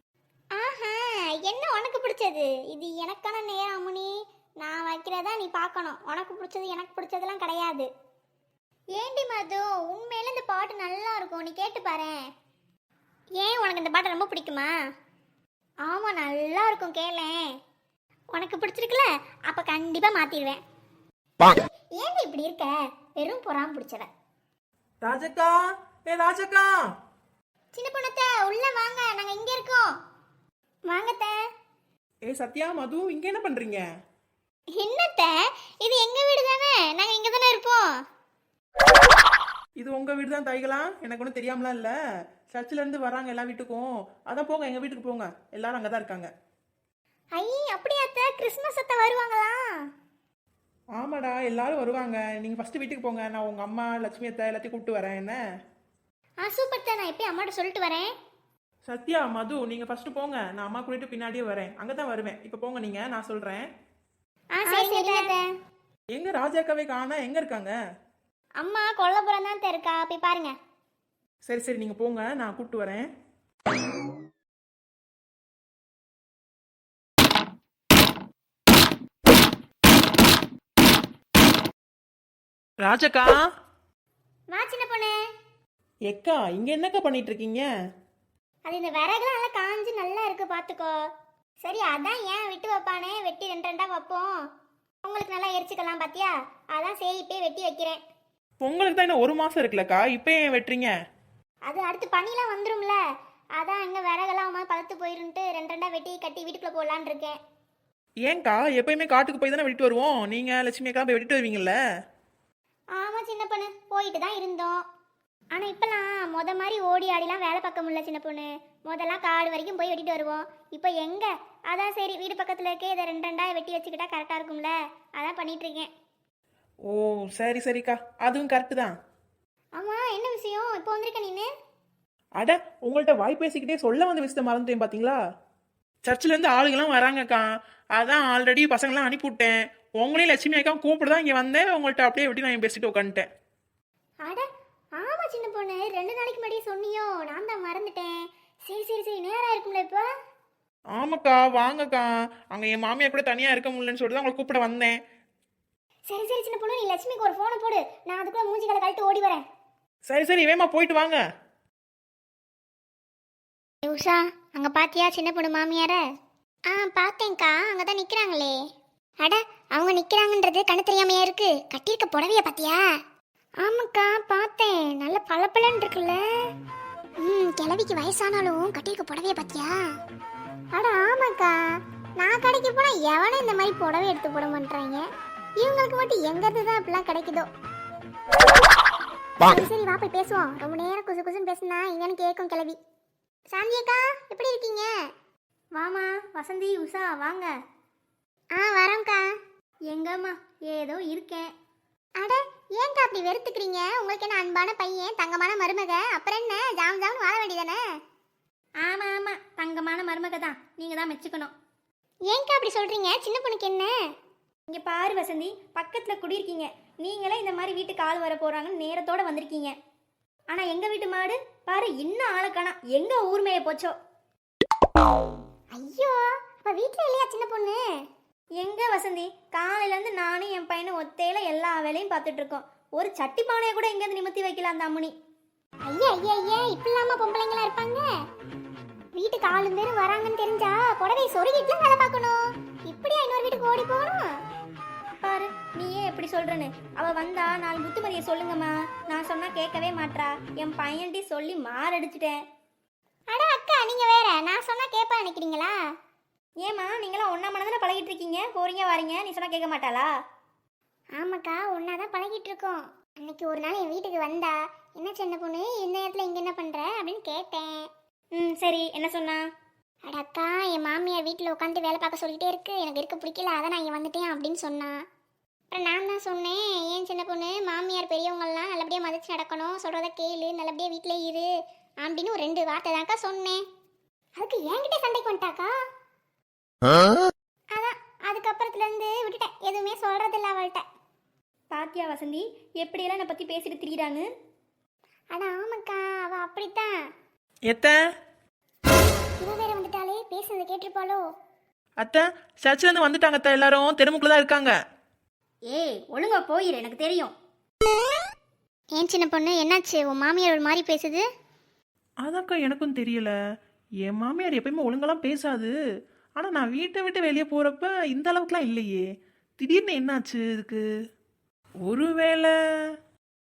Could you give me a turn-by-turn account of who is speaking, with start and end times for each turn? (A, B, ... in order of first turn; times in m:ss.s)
0:00.6-0:04.1 A
0:04.6-0:07.9 A
0:09.0-0:12.1 A
0:13.4-0:14.7 A
0:15.9-0:17.4 A
0:18.3-0:20.6 A
0:22.0-0:24.1 A
0:25.0-0:25.5 B
0:26.1-0:26.7 B
0:27.7-0:29.9 A
0:30.9-0:31.4 A
0:32.3-0:33.8 B
0:34.8-0:37.8 A
0:39.8-0:41.9 B
0:42.5-0:46.3 B
0:47.4-0:49.6 A
0:51.0-0:55.4 B
0:56.4-0:58.1 A
0:58.9-1:03.6 B
1:04.6-1:05.3 A
1:06.1-1:07.7 B
1:08.6-1:10.5 A
1:11.5-1:13.0 B
1:22.8-1:23.3 B
1:24.5-1:25.1 A
1:26.1-1:27.6 B
1:28.7-1:30.9 A
1:31.6-1:34.3 A
1:35.0-1:38.0 A
1:38.6-1:40.9 B
1:41.7-1:43.0 A
1:43.6-1:47.4 A
1:48.3-1:51.7 B
1:53.0-1:54.8 A
1:55.5-2:05.9 A
2:06.9-2:08.9 B
2:09.8-2:11.5 A
2:12.4-2:15.2 B
2:16.0-2:17.4 B
2:18.0-2:23.2 B
2:25.0-2:30.1 A
2:31.0-2:34.9 B
2:36.1-2:39.4 A
2:40.1-2:41.2 B
2:43.8-2:46.0 A
2:46.7-2:48.5 A
2:49.2-2:52.8 A
2:53.6-2:56.2 A
2:57.2-2:59.7 A
3:00.7-3:01.6 A
3:02.2-3:05.0 A
3:05.6-3:07.5 A
3:09.4-3:12.8 A
3:13.5-3:14.9 A
3:15.8-3:17.5 C
3:18.6-3:19.2 A
3:19.9-3:21.5 C
3:22.2-3:27.8 A
3:28.8-3:31.5 C
3:32.3-3:33.9 A
3:34.7-3:39.8 C
3:40.5-3:44.0 C
3:45.7-3:47.8 A
3:48.6-3:55.1 C
3:55.8-3:58.0 A
3:59.2-4:04.2 A
4:05.2-4:12.4 C
4:13.3-4:15.7 A
4:16.6-4:20.1 C
4:21.2-4:27.7 A
4:28.3-4:29.4 C
4:30.1-4:34.9 A
4:35.7-4:41.5 A
4:42.0-4:43.6 A
4:44.4-4:45.7 A
4:47.8-4:50.8 A
4:51.7-4:54.3 C
4:55.3-4:56.9 A
4:57.7-4:58.0 B
4:59.0-5:01.2 A
5:02.0-5:04.7 B
5:05.7-5:07.3 C
5:09.0-5:11.2 A
5:12.2-5:13.3 B
5:14.0-5:15.7 B
5:16.4-5:19.0 B
5:19.6-5:20.8 B
5:21.8-5:22.5 B